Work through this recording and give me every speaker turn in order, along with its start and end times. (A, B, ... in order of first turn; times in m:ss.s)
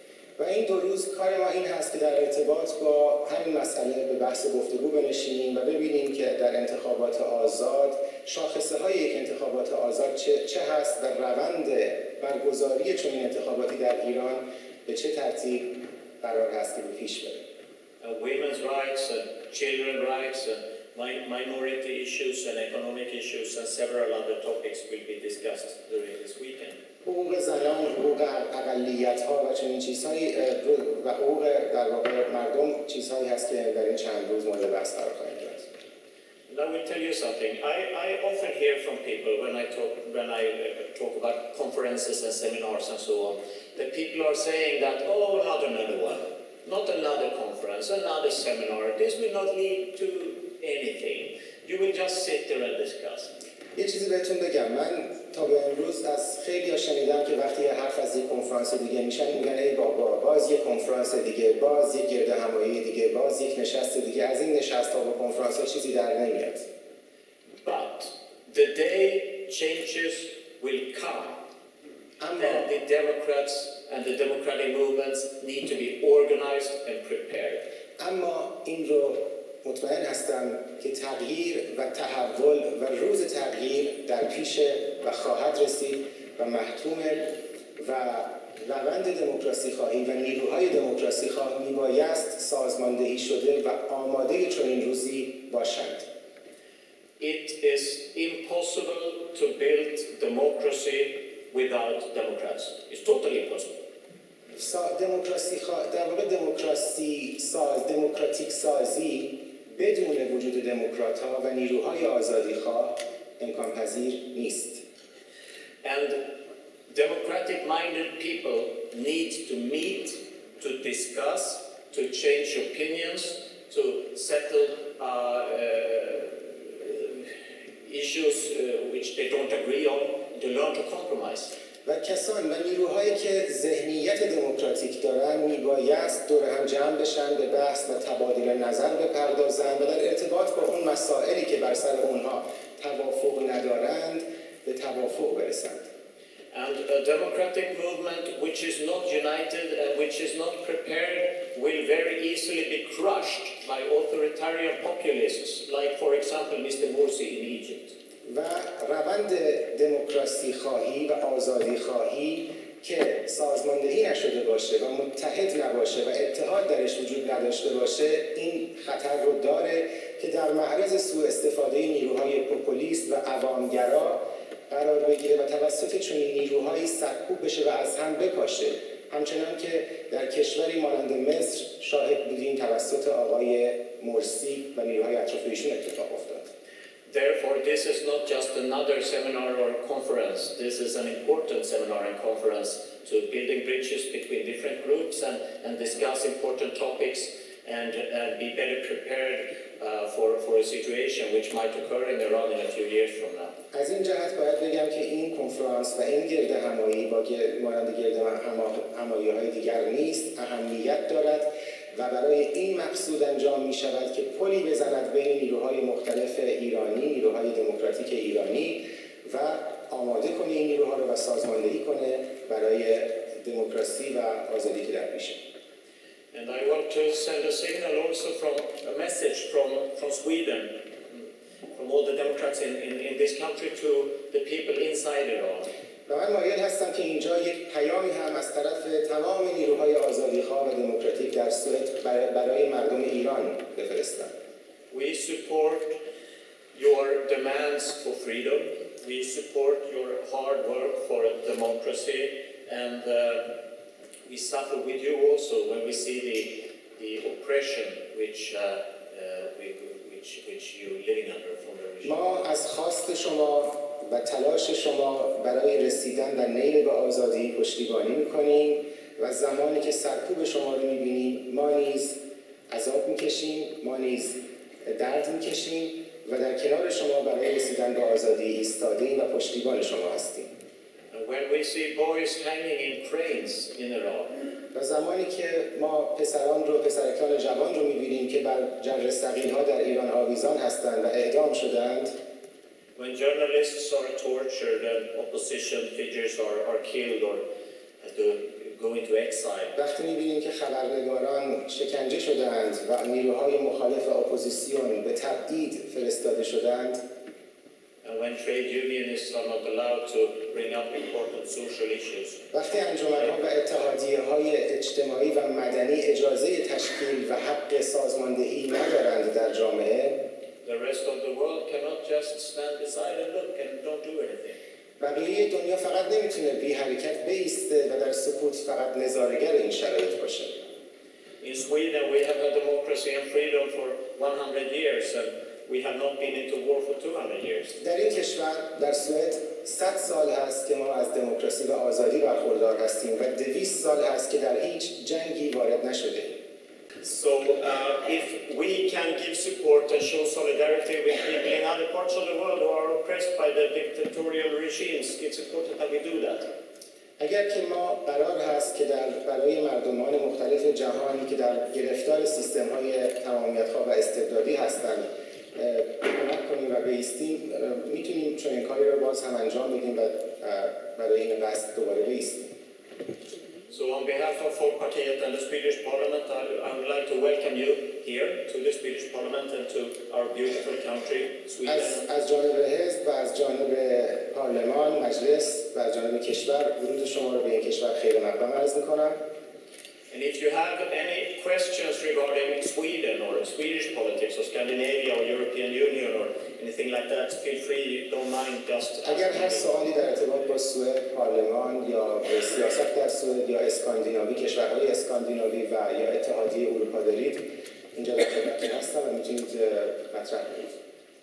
0:00.4-0:15.7 A
0:16.2-0:17.4 A
0:18.0-0:26.8 B
0:27.0-0:35.7 A
0:36.5-0:53.3 B
0:53.8-1:06.6 A
1:07.6-1:11.4 B
1:12.2-1:12.7 A
1:12.4-1:17.6 B
1:18.0-1:36.1 A
1:37.2-1:43.7 B
1:44.5-1:54.8 A
1:55.8-1:56.2 B
1:56.9-2:07.3 B
2:07.8-2:11.5 B
2:11.8-2:25.8 A
2:26.5-2:37.9 B
2:38.2-3:06.4 A
3:07.1-3:23.5 B
3:23.7-3:45.4 A
3:46.3-3:55.7 B
3:56.1-4:04.3 A
4:04.9-4:06.0 B
4:06.7-4:13.4 B
4:14.3-4:22.2 B
4:22.0-4:32.2 A
4:32.7-4:40.5 A
4:41.1-4:44.3 B
4:44.7-4:52.1 A
4:53.0-4:57.4 B
4:58.0-4:59.8 B
4:59.8-5:07.0 A
5:08.0-5:12.5 B
5:12.5-5:20.2 A
5:20.6-5:24.6 B
5:25.0-5:30.6 A
5:31.4-5:37.8 B
5:37.8-5:46.4 A
5:47.0-5:56.5 B
5:57.2-6:12.5 A
6:13.7-6:22.0 B
6:21.6-6:29.2 A
6:30.1-6:39.7 B
6:39.0-6:50.8 A